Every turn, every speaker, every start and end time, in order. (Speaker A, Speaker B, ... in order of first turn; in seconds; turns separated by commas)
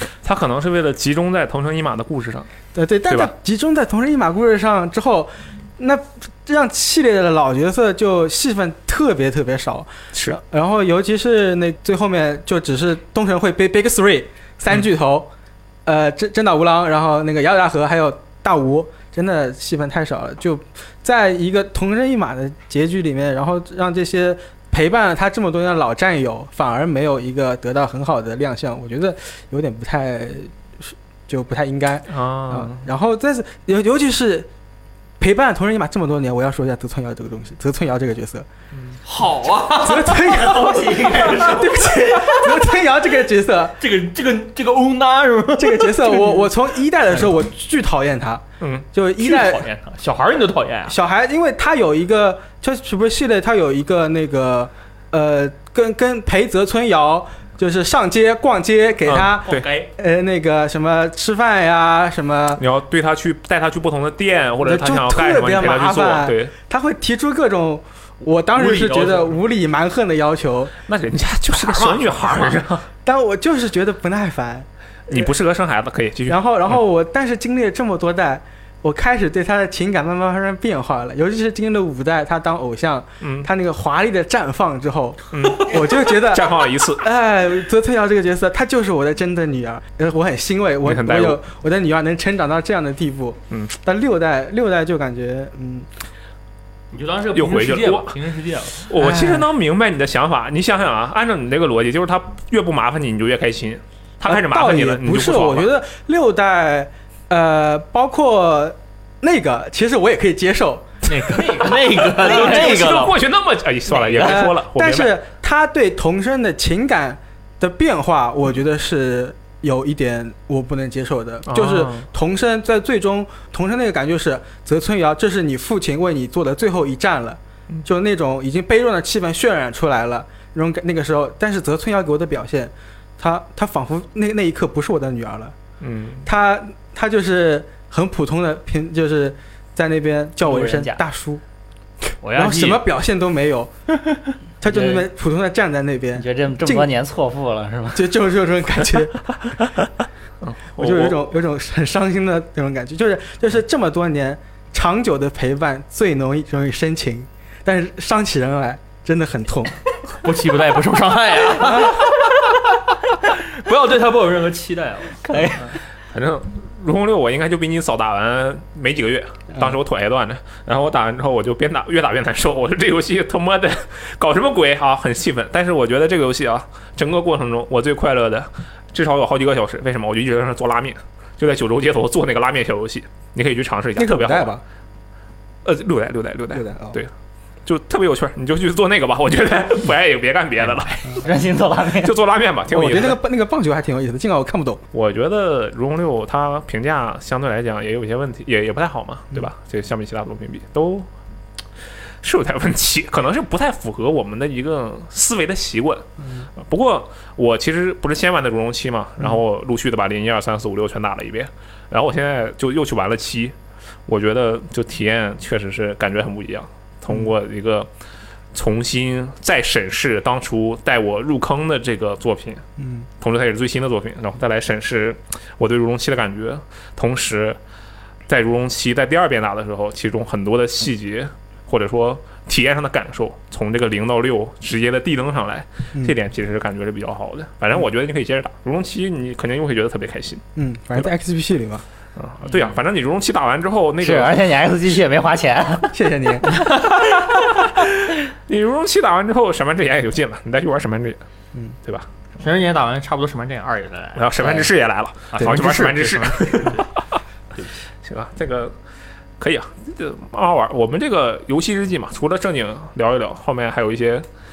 Speaker A: 0.2-2.5, Speaker B: 2.8-15.3, Speaker A: 10.1-10.4, Speaker B: 15.8-34.5, Speaker A: 32.1-32.9, Speaker B: 35.2-38.5, Speaker C: 39.1-42.6, Speaker B: 39.7-43.8, Speaker D: 40.4-41.9, Speaker C: 43.8-46.5, Speaker B: 45.6-49.6, Speaker C: 49.2-51.0, Speaker B: 50.9-62.6, Speaker A: 59.1-59.7, Speaker C: 59.5-59.9, Speaker A: 62.6-66.5, Speaker B: 64.6-70.7, Speaker C: 68.5-69.4, Speaker A: 70.9-72.9, Speaker C: 71.5-72.6, Speaker B: 73.0-75.3, Speaker A: 75.1-76.8, Speaker B: 76.3-95.9, Speaker A: 83.2-83.5, Speaker A: 85.3-87.0, Speaker A: 90.8-91.4, Speaker C: 96.9-98.9, Speaker A: 97.3-98.1, Speaker A: 98.8-105.7, Speaker B: 99.0-99.5, Speaker B: 104.2-112.9, Speaker C: 111.1-113.2, Speaker A: 112.0-115.2, Speaker C: 114.0-114.4, Speaker B: 114.2-135.6, Speaker A: 121.5-122.1, Speaker A: 135.8-136.3, Speaker B: 136.2-141.4, Speaker D: 140.4-141.0, Speaker C: 142.2-142.8, Speaker B: 142.3-143.7, Speaker C: 143.9-144.3, Speaker B: 144.6-146.9, Speaker D: 144.6-145.1, Speaker D: 146.2-148.1, Speaker B: 147.9-149.2, Speaker A: 150.4-151.3, Speaker B: 150.8-159.8, Speaker C: 160.2-162.5, Speaker C: 163.2-165.8, Speaker D: 165.2-165.8, Speaker A: 166.1-184.5, Speaker B: 184.0-184.6, Speaker A: 185.7-187.1, Speaker B: 186.5-187.0, Speaker A: 187.7-191.1, Speaker D: 191.0-192.2, Speaker A: 192.0-193.2, Speaker B: 192.7-194.8, Speaker A: 194.9-201.1, Speaker A: 202.2-206.1, Speaker B: 206.2-206.5, Speaker A: 206.6-213.6, Speaker A: 214.1-217.9, Speaker A: 218.5-222.6, Speaker B: 222.8-223.1, Speaker A: 223.2-227.6, Speaker A: 228.3-240.4, Speaker B: 240.6-241.8, Speaker A: 242.2-244.4, Speaker D: 244.0-245.9, Speaker B: 245.9-246.7, Speaker A: 247.6-251.2, Speaker C: 252.4-254.7, Speaker A: 254.2-256.9, Speaker D: 254.4-254.6, Speaker C: 255.3-256.9, Speaker A: 258.0-258.8, Speaker A: 259.4-264.3